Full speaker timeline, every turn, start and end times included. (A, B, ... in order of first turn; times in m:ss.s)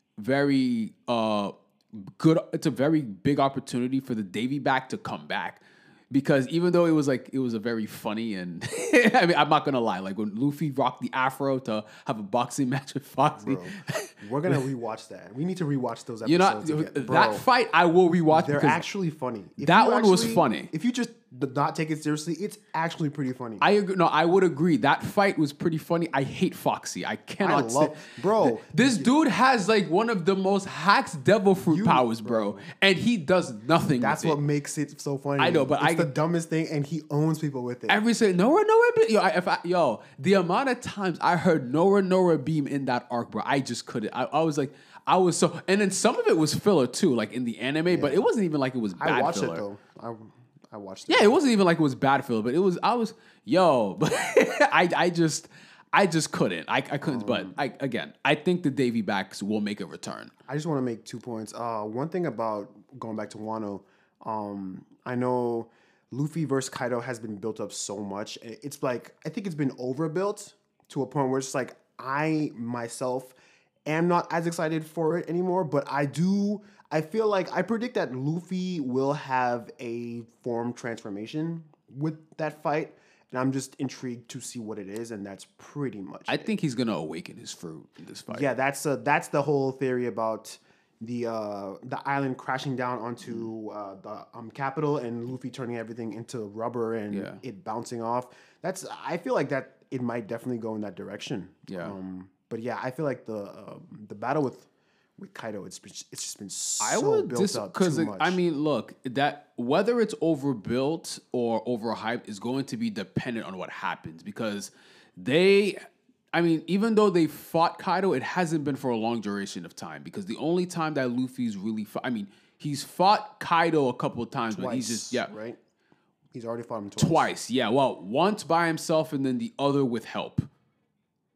0:00.2-0:14.6 A
0:13.4-0:17.4 B
0:16.2-0:18.8 A
0:18.3-0:23.6 B
0:19.6-0:20.7 A
0:23.6-0:34.4 A
0:27.4-0:29.1 B
0:31.7-0:32.6 B
0:34.0-0:38.0 B
0:35.4-0:36.1 A
0:37.9-0:49.6 A
0:47.9-0:48.3 B
0:49.0-0:51.4 B
0:51.1-1:00.3 A
0:57.0-0:57.6 B
1:00.5-1:13.4 B
1:13.9-1:26.5 B
1:26.3-1:28.5 A
1:28.3-1:48.4 B
1:37.1-1:37.4 A
1:41.7-1:42.0 A
1:46.8-2:05.3 A
2:04.5-2:05.6 B
2:06.3-2:07.3 B
2:07.0-2:10.5 A